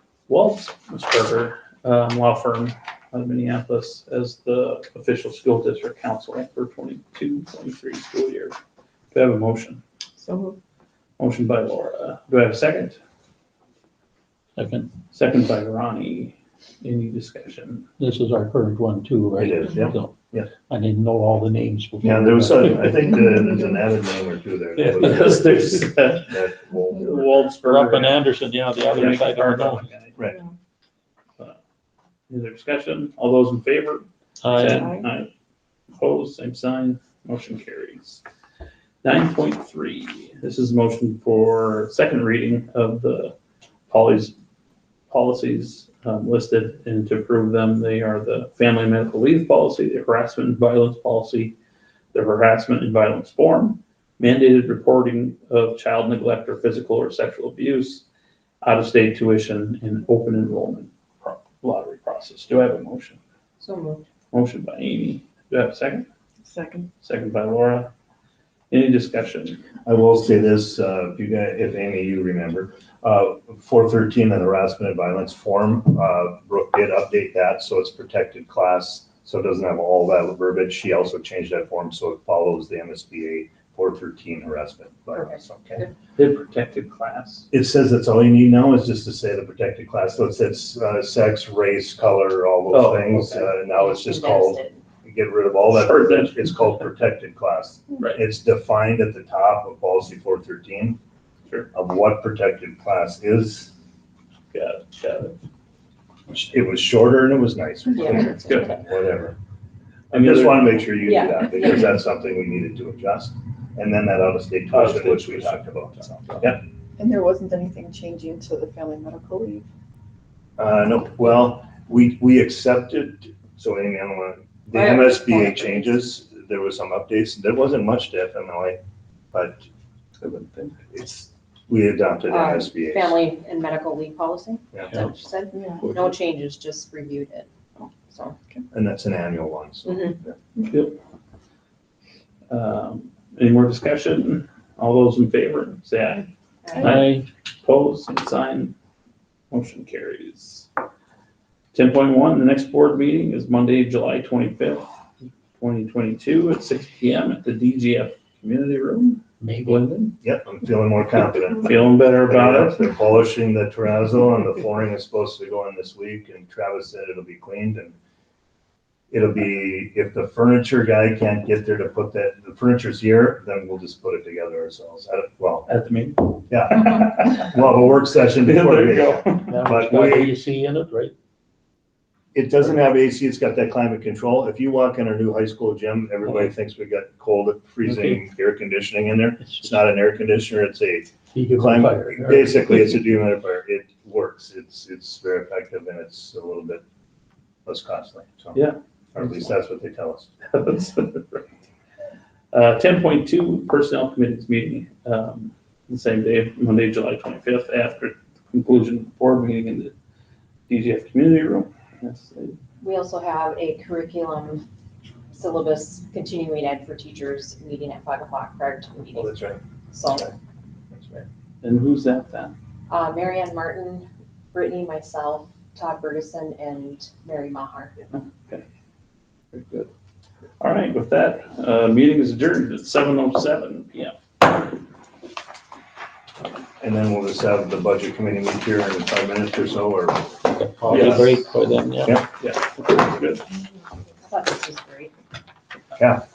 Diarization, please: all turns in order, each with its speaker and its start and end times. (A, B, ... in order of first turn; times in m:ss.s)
0:00.3-0:08.6 A
0:09.1-0:09.8 A
0:10.2-0:10.6 B
0:11.2-0:13.0 A
0:14.6-0:14.9 C
0:15.1-0:17.9 A
0:18.0-0:20.1 C
0:19.4-0:20.5 D
0:20.7-0:23.1 C
0:22.0-0:27.5 D
0:24.8-0:26.4 A
0:27.0-0:28.2 A
0:27.6-0:29.9 C
0:28.8-0:30.2 A
0:32.3-0:35.3 A
0:34.4-0:34.9 C
0:34.8-0:35.0 B
0:36.0-0:38.2 A
0:39.0-0:43.4 A
0:43.9-0:44.3 A
0:45.1-0:51.6 A
0:52.1-0:58.1 A
0:58.6-1:03.2 A
1:03.6-1:04.0 E
1:04.3-1:06.1 A
1:06.4-1:06.9 B
1:07.0-1:07.9 A
1:08.7-1:09.6 A
1:09.8-1:25.8 D
1:25.2-1:25.9 E
1:26.2-1:27.5 A
1:27.5-1:41.0 D
1:32.7-1:33.5 A
1:33.7-1:34.8 E
1:35.7-1:36.9 A
1:41.7-1:43.7 D
1:44.5-1:45.4 A
1:46.3-1:49.4 D
1:48.1-1:48.8 A
1:50.1-1:51.0 A
1:50.1-1:56.6 D
1:51.0-1:52.0 E
1:54.7-1:56.6 A
1:57.0-1:59.6 B
2:00.6-2:08.8 D
2:04.7-2:06.0 E
2:09.3-2:09.6 D
2:10.2-2:13.2 D
2:12.3-2:18.4 E
2:15.5-2:15.9 B
2:15.9-2:16.2 C
2:18.7-2:20.4 D
2:19.9-2:20.2 E
2:20.6-2:21.0 A
2:22.5-2:26.3 A
2:26.6-2:26.9 E
2:26.8-2:27.3 C
2:26.8-2:28.7 A
2:29.5-2:30.7 A
2:31.7-2:34.9 A
2:35.6-2:40.2 A
2:39.4-2:39.8 C
2:40.2-2:48.0 D
2:41.6-2:42.8 A
2:49.1-2:55.7 D
2:55.7-2:57.7 A
2:56.5-3:00.4 D
2:58.4-2:59.6 A
2:59.5-3:01.1 C
3:02.3-3:16.8 D
3:07.8-3:08.2 C
3:09.4-3:09.8 C
3:11.4-3:13.0 C
3:17.7-3:20.3 D
3:20.5-3:21.5 A
3:22.5-3:29.9 A
3:30.7-3:32.6 A
3:32.8-3:34.7 E
3:35.3-3:39.3 E
3:39.2-3:40.3 D
3:39.9-3:40.3 E
3:40.9-3:41.2 D
3:41.6-3:42.5 A
3:42.9-3:48.0 E
3:48.1-3:48.6 A
3:49.5-3:49.9 A
3:50.6-3:54.5 A
3:56.8-4:01.4 D
4:00.5-4:02.2 C
4:00.9-4:01.5 A
4:02.4-4:03.4 A
4:04.2-4:05.1 E
4:06.0-4:06.2 D